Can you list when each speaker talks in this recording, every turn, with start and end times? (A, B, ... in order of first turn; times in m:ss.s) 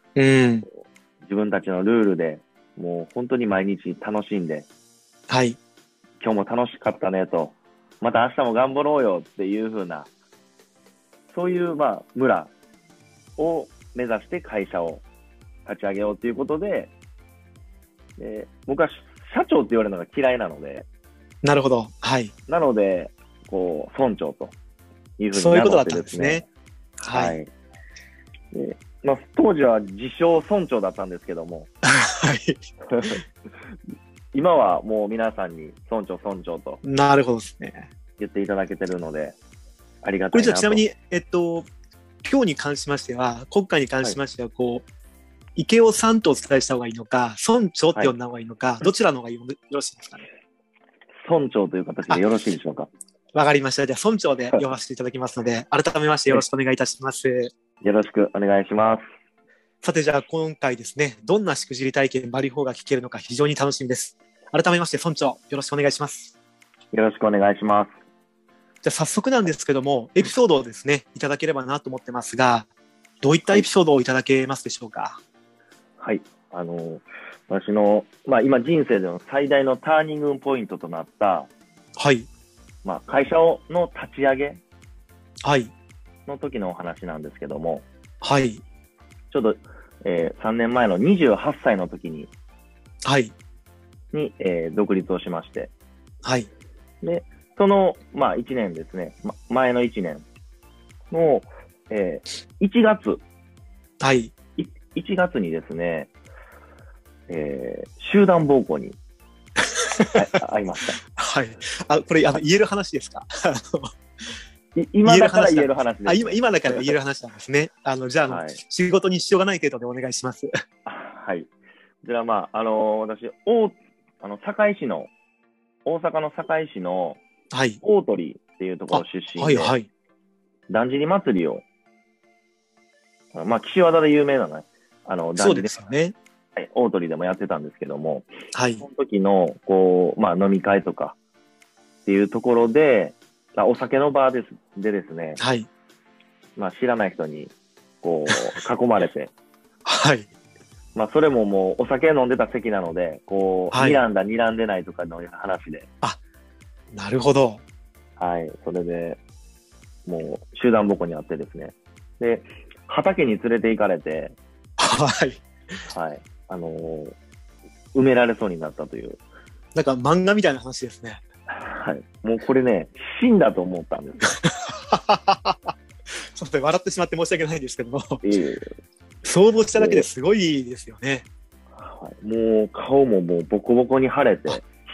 0:00.2-0:00.7 A
0:01.2-0:04.7 B
0:05.3-0:05.6 A
0:06.2-0:10.1 B
0:11.3-0:12.5 B
0:13.4-0:15.0 B
0:15.6-0:16.9 B
0:18.2-0:20.8 B
0:21.4-0:22.3 A
0:22.5-0:24.5 B
0:25.2-0:26.4 B
0:25.3-0:26.4 A
0:27.0-0:27.5 B
0:27.0-0:27.4 A
0:28.5-0:31.7 B
0:31.9-0:33.2 A
0:34.3-0:36.8 B
0:36.8-0:37.9 A
0:38.2-0:39.4 B
0:40.0-0:40.8 B
0:40.3-0:41.7 A
0:42.2-0:44.8 A
0:45.6-0:50.3 A
0:51.2-0:52.9 B
0:53.3-0:57.5 A
0:57.8-0:59.0 B
0:59.8-1:06.3 A
1:06.9-1:07.9 B
1:08.8-1:12.7 A
1:13.2-1:15.2 A
1:16.0-1:21.5 B
1:22.0-1:22.3 A
1:22.8-1:24.6 B
1:25.4-1:25.7 A
1:26.2-1:27.9 B
1:28.2-1:28.6 A
1:29.3-1:32.3 B
1:33.0-1:33.3 A
1:34.1-1:35.7 B
1:36.2-1:36.5 A
1:37.0-1:40.2 B
1:41.1-1:43.2 B
1:44.0-1:44.3 A
1:44.6-1:46.1 B
1:47.3-1:49.0 B
1:49.7-1:50.2 A
1:50.1-1:51.0 B
1:51.2-1:53.9 A
1:54.7-1:56.9 B
1:55.0-2:00.5 A
1:58.3-1:58.6 B
2:00.8-2:01.5 B
2:02.0-2:05.1 B
2:05.8-2:07.2 B
2:07.5-2:07.8 A
2:07.8-2:09.7 B
2:08.9-2:09.9 A
2:10.7-2:11.6 B
2:13.3-2:15.9 B
2:15.4-2:16.1 A
2:16.6-2:18.3 B
2:18.5-2:18.8 A
2:18.8-2:21.2 B
2:22.0-2:25.4 B
2:25.4-2:25.7 A
2:26.6-2:29.3 B
2:29.8-2:30.3 A
2:30.9-2:35.9 B
2:33.7-2:34.0 A
2:36.9-2:37.6 A
2:38.2-2:39.2 B
2:40.0-2:44.4 B
2:44.8-2:45.4 A
2:45.9-2:47.1 B
2:47.9-2:49.2 B
2:49.7-2:51.2 A
2:51.5-2:54.3 B
2:54.4-2:55.7 A
2:56.3-2:58.2 A
2:58.2-2:58.7 B
2:59.2-3:01.2 A
2:59.7-3:00.1 B
3:01.8-3:04.6 B